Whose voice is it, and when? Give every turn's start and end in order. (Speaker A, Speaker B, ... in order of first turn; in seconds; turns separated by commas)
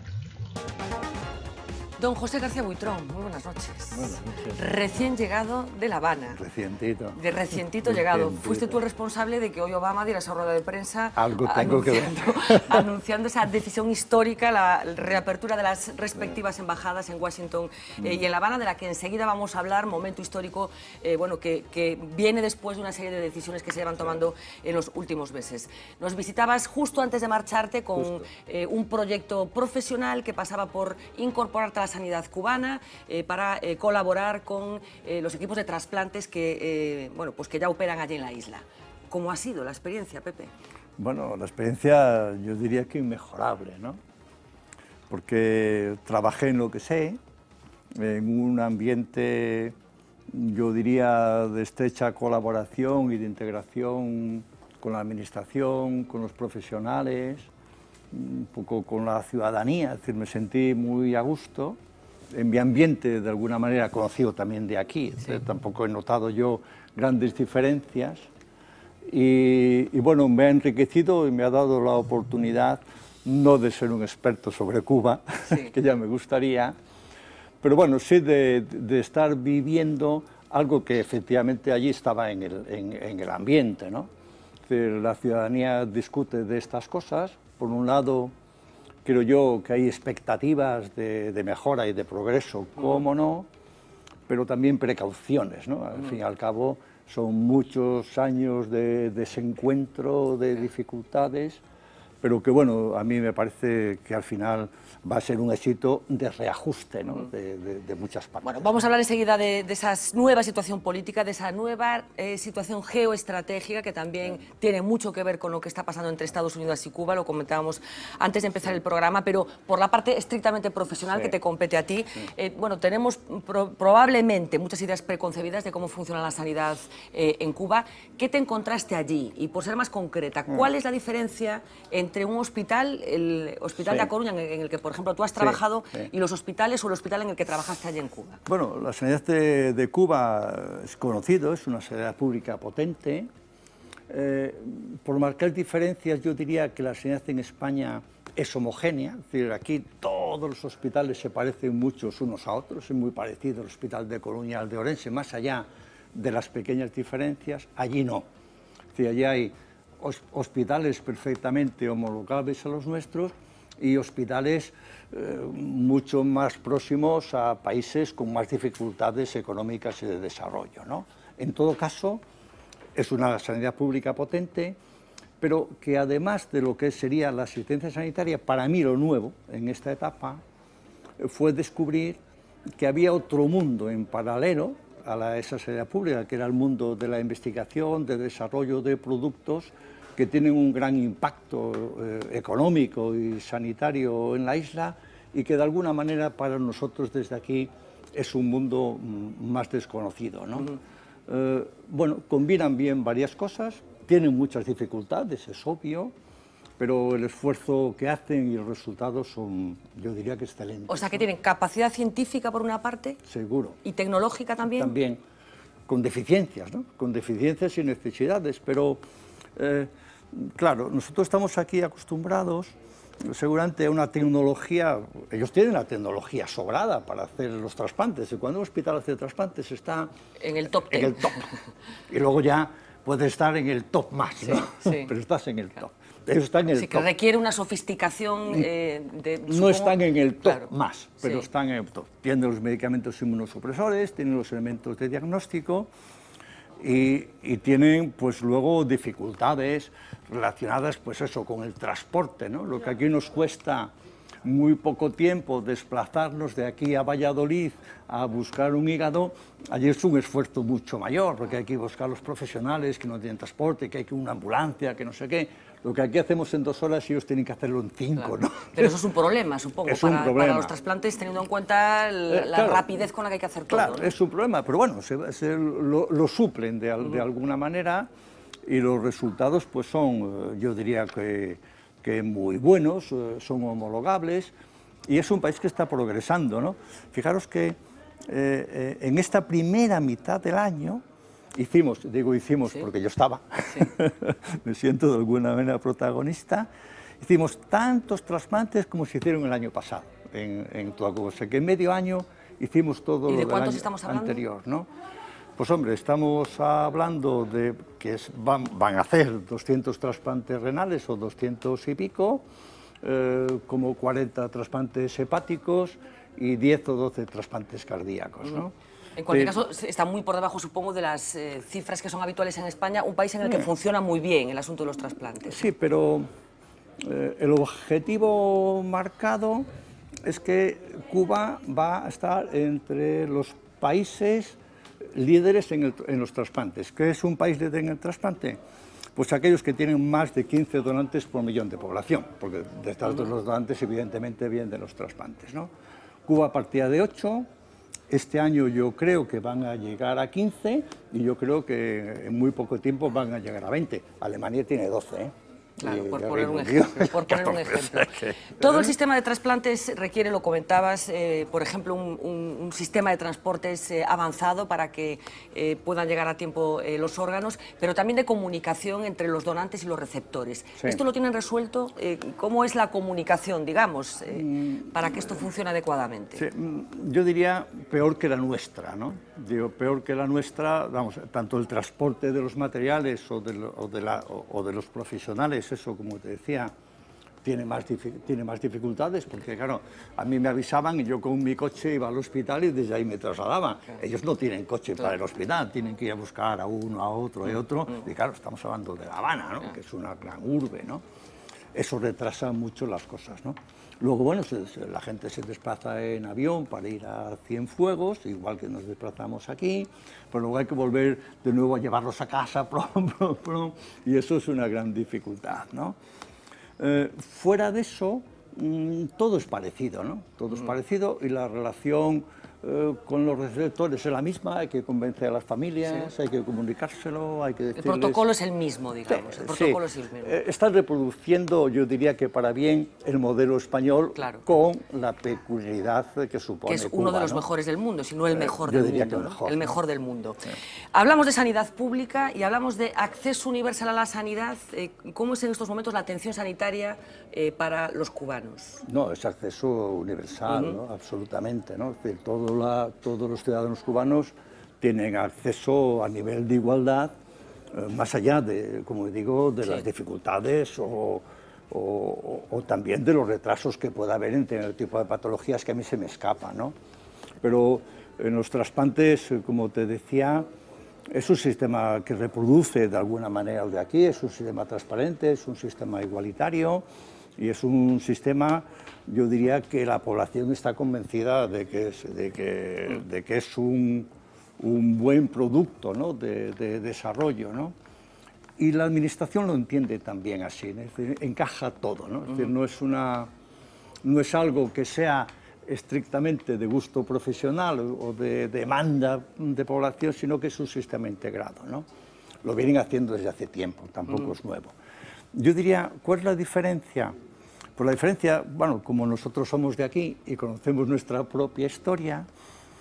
Speaker A: 2.0-6.4, Speaker B: 3.9-4.6, Speaker B: 6.3-7.2, Speaker A: 7.2-40.5, Speaker B: 7.8-8.8, Speaker B: 11.2-12.9, Speaker B: 18.0-18.2, Speaker B: 27.9-28.3, Speaker B: 41.0-44.0, Speaker B: 45.1-47.2, Speaker B: 48.0-49.7, Speaker B: 50.3-57.5, Speaker B: 58.1-61.8, Speaker B: 62.3-68.3, Speaker B: 69.1-76.8, Speaker B: 77.6-84.1, Speaker B: 84.7-88.3, Speaker B: 89.0-93.5, Speaker B: 94.3-101.6, Speaker B: 102.2-108.8, Speaker A: 108.4-138.4, Speaker B: 133.8-134.1, Speaker B: 135.3-136.1, Speaker B: 138.5-143.3, Speaker B: 144.1-158.2, Speaker B: 158.9-172.2, Speaker B: 172.9-174.8, Speaker B: 175.4-180.4, Speaker B: 181.2-182.2, Speaker B: 182.8-200.8, Speaker B: 201.3-206.1, Speaker B: 206.8-211.3, Speaker A: 210.9-213.2, Speaker B: 213.2-213.8, Speaker A: 213.8-214.9, Speaker B: 214.8-215.2, Speaker B: 215.9-219.0, Speaker B: 219.6-222.7, Speaker B: 223.2-230.1, Speaker A: 230.4-231.5, Speaker B: 230.9-231.4, Speaker B: 232.1-237.1, Speaker A: 234.4-235.1, Speaker A: 236.7-240.7, Speaker B: 239.5-245.9, Speaker B: 246.8-253.9, Speaker B: 254.4-268.9, Speaker A: 268.8-274.1, Speaker B: 269.8-270.7, Speaker B: 272.3-273.0, Speaker B: 273.7-278.1, Speaker B: 278.7-284.5, Speaker B: 285.1-291.0, Speaker B: 291.5-296.7, Speaker B: 297.2-304.9, Speaker A: 303.3-304.4, Speaker B: 305.6-312.4, Speaker B: 313.0-318.7, Speaker A: 319.1-325.6, Speaker B: 319.3-319.5, Speaker B: 323.4-323.7, Speaker B: 325.4-326.3, Speaker B: 327.0-329.7, Speaker B: 330.2-334.6, Speaker B: 335.1-338.6, Speaker B: 339.1-345.7, Speaker B: 346.3-347.5, Speaker B: 348.1-358.9, Speaker A: 355.8-376.4, Speaker B: 374.3-375.5, Speaker B: 376.3-386.7, Speaker B: 387.4-401.0, Speaker B: 401.7-416.0, Speaker B: 416.8-428.3, Speaker A: 427.8-430.3, Speaker B: 429.1-437.4, Speaker A: 434.1-434.4, Speaker A: 436.7-448.8, Speaker B: 438.3-439.8, Speaker B: 448.8-457.1, Speaker A: 450.5-450.7, Speaker B: 457.7-466.7, Speaker B: 467.4-470.5, Speaker B: 471.1-476.9, Speaker B: 477.4-487.7, Speaker B: 488.6-493.3, Speaker B: 494.0-501.9, Speaker B: 502.4-504.7, Speaker B: 505.3-507.1, Speaker B: 507.8-512.3